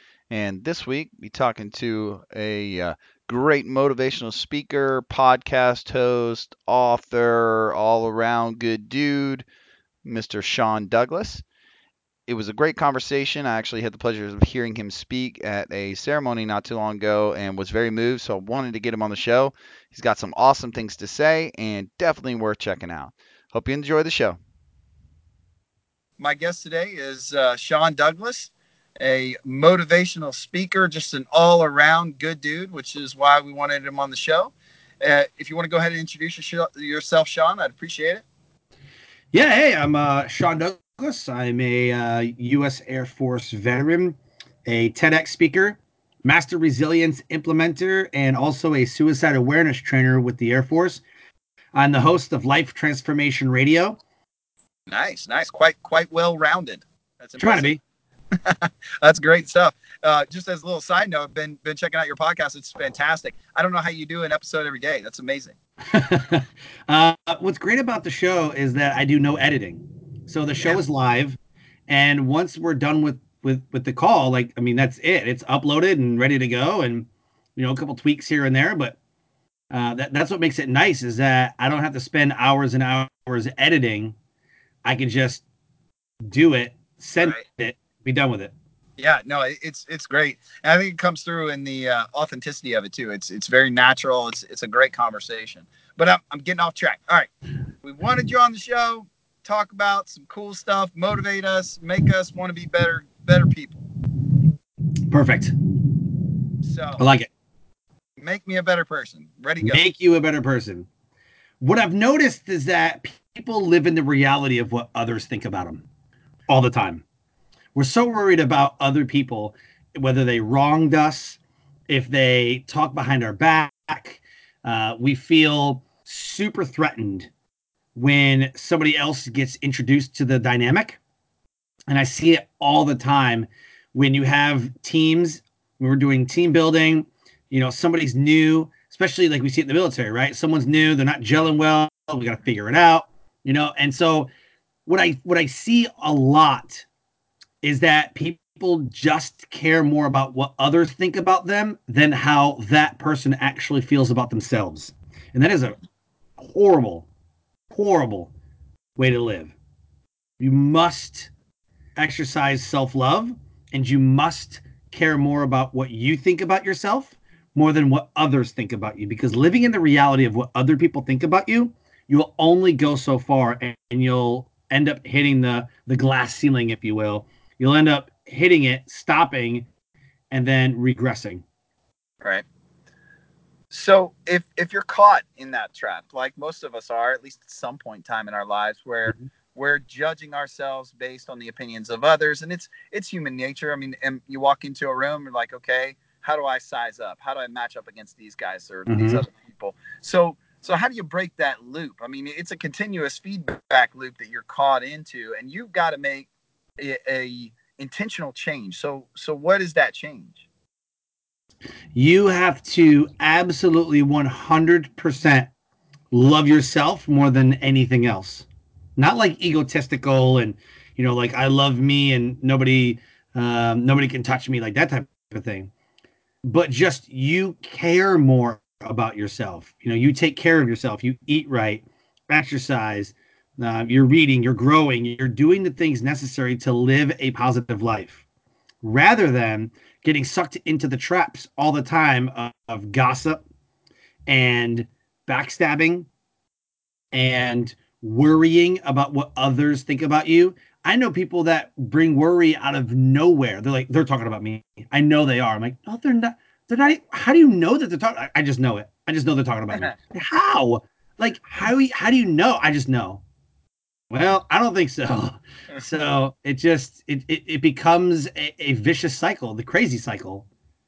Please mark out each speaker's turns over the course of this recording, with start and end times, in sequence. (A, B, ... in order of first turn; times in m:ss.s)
0:00.3-0:09.4 A
0:05.4-0:05.7 B
0:06.5-0:07.0 B
0:10.0-0:11.4 A
0:12.3-0:24.4 A
0:13.1-0:13.5 B
0:22.6-0:23.1 B
0:23.8-0:24.4 B
0:26.2-0:38.2 B
0:39.3-0:51.0 C
0:51.7-0:54.0 C
0:54.9-0:57.8 B
0:57.4-0:57.8 C
0:58.4-1:05.6 B
1:05.9-1:19.0 C
1:19.7-1:24.2 C
1:24.8-1:25.4 C
1:26.3-1:28.5 C
1:29.0-1:37.3 B
1:37.8-1:43.8 B
1:45.1-1:45.6 C
1:46.6-1:47.0 B
1:47.0-1:47.3 C
1:48.2-1:49.8 B
1:49.6-1:50.9 C
1:51.6-1:55.8 C
1:56.5-1:57.0 C
1:57.8-2:07.3 C
2:08.0-2:11.0 C
2:11.9-2:24.3 C
2:24.9-2:26.9 C
2:27.6-2:35.8 C
2:36.4-2:37.1 C
2:37.7-2:38.3 C
2:39.0-2:39.5 C
2:40.4-2:41.3 C
2:42.0-2:59.7 C
3:00.3-3:01.4 C
3:03.7-3:30.4 B
3:18.9-3:19.2 C
3:31.9-3:35.5 C
3:36.1-3:38.5 C
3:39.0-3:45.7 C
3:46.4-3:58.2 C
3:58.8-4:03.4 C
4:04.3-4:06.1 C
4:07.1-4:23.2 C
4:24.1-4:30.5 C